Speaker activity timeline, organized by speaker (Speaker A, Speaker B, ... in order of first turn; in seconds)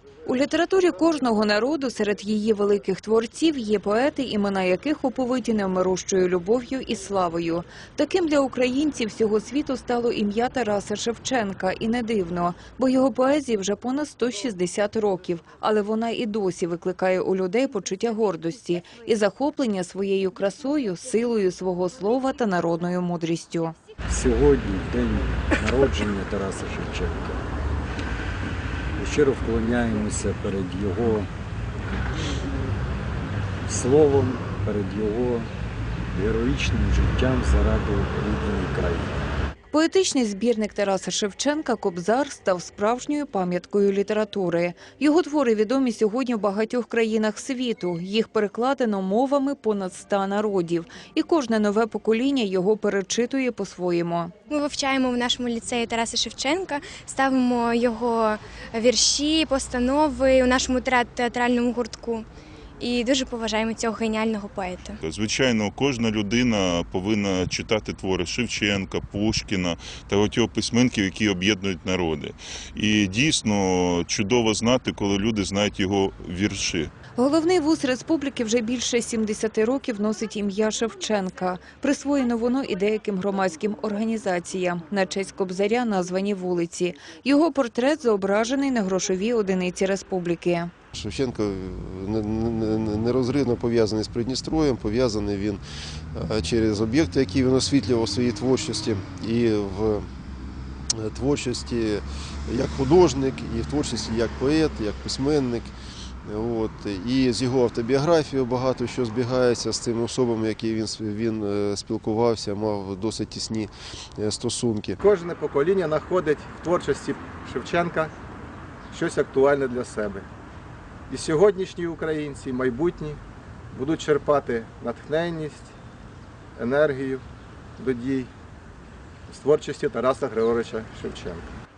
Speaker A: 0.3-23.8, 39.7-54.3, 77.2-90.7
Speaker B: 24.1-27.5, 29.0-31.3, 33.6-35.5, 36.1-39.2
Speaker C: 54.5-62.3, 62.8-65.0
Speaker D: 65.0-76.9
Speaker E: 90.9-95.6, 96.1-100.1, 100.9-105.7, 106.2-115.0
Speaker F: 115.0-118.1, 118.9-120.3, 121.1-123.2, 123.7-125.7, 126.6-127.2, 127.8-128.3, 129.3-131.5